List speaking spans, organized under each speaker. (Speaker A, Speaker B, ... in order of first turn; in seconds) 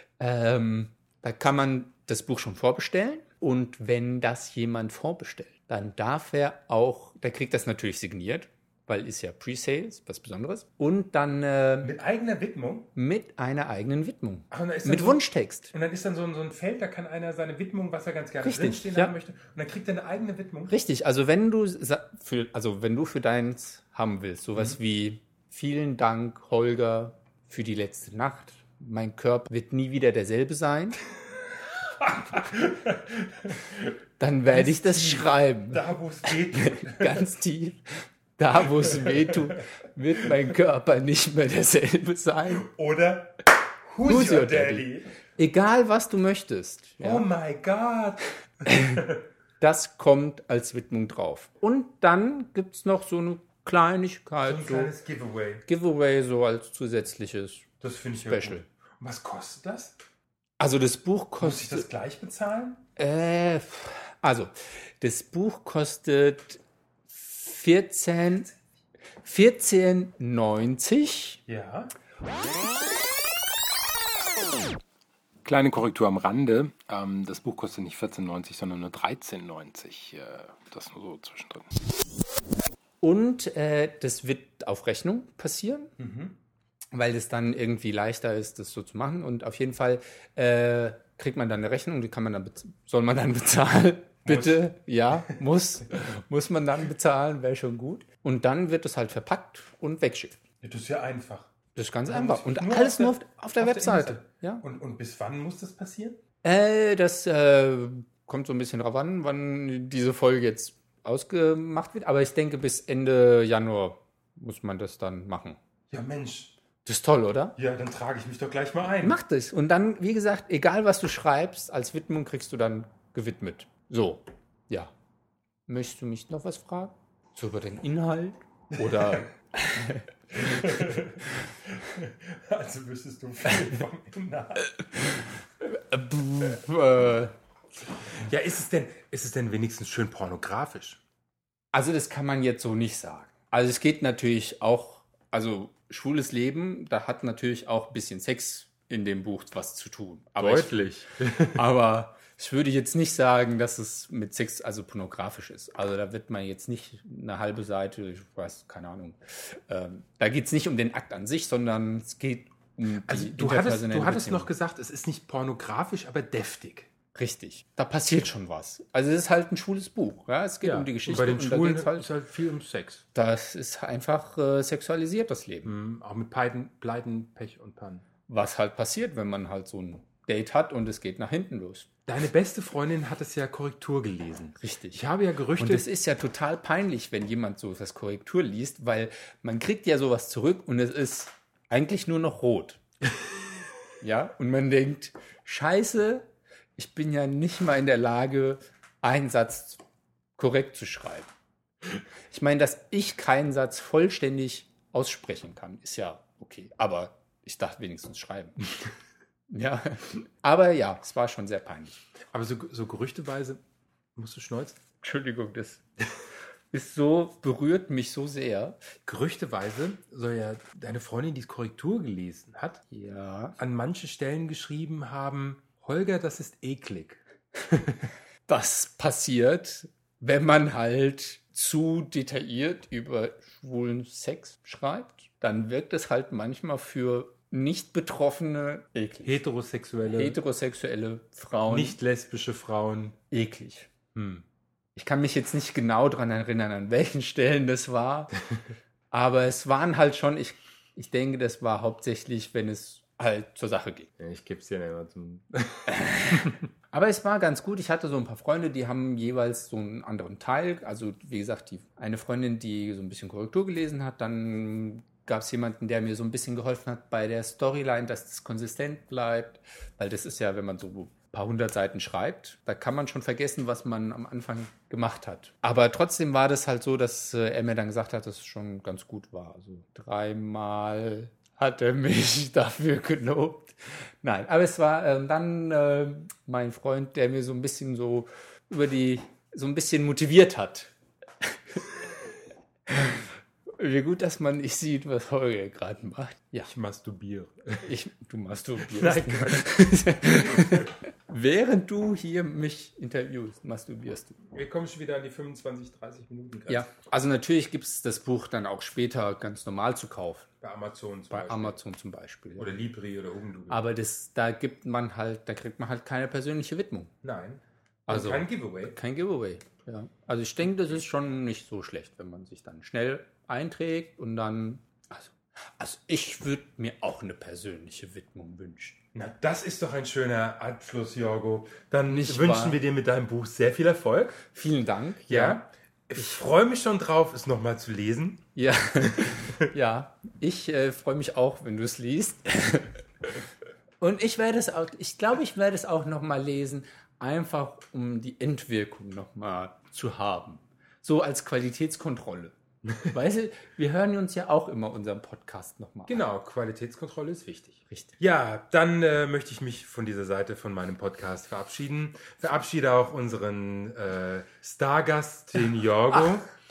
Speaker A: 0.2-11.9, 12.9-15.7, 18.4-19.1, 20.7-31.0, 34.2-35.8, 36.5-37.8, 38.4-42.7, 44.0-44.9, 45.4-47.2, 48.7-49.0, 49.6-54.9, 55.6-57.7, 58.2-58.6, 60.6-61.9, 63.0-68.5, 69.2-71.4, 83.0-85.9, 86.9-100.4, 101.7-104.6, 106.4-115.6, 116.8-117.5, 119.0-124.9, 125.7-131.0, 135.2-137.3, 141.7-150.8, 151.5-164.5, 167.1-172.1, 173.1-175.7, 178.3-181.9, 184.6-185.0, 185.6-192.8, 194.0-199.8, 200.4-201.3, 202.3-208.7, 209.5-212.0, 215.0-215.8, 216.7-218.8, 222.9-223.6, 228.5-239.4, 240.1-242.0, 243.3-243.9, 244.9-248.4, 249.1-254.1, 255.9-290.9, 291.4-291.8, 292.9-296.7, 297.8-304.4, 306.7-310.5, 311.3-312.7, 313.7-317.1, 318.1-329.0, 332.1-332.8, 334.5-335.6, 336.1-336.4, 338.6-343.0, 344.0-356.2
Speaker B: 11.8-12.9, 14.5-20.7, 32.0-33.8, 34.5-37.2, 38.8-39.2, 42.5-45.1, 47.0-49.2, 54.4-55.6, 57.8-60.0, 61.4-62.8, 71.5-71.9, 75.4-81.8, 86.0-86.3, 94.2-94.6, 100.6-101.5, 102.1-106.2, 115.9-116.5, 117.5-119.2, 128.7-129.3, 130.3-134.7, 138.1-141.0, 150.4-151.6, 163.0-166.9, 170.6-173.0, 175.6-178.0, 182.1-185.9, 212.3-213.6, 214.2-214.8, 219.0-222.8, 223.6-228.1, 239.2-240.4, 241.7-243.2, 244.1-244.4, 254.2-256.6, 296.6-297.9, 298.9-299.6, 304.5-306.9, 310.6-311.8, 312.6-313.8, 317.2-318.9, 329.1-334.4, 335.3-338.5, 356.1-366.5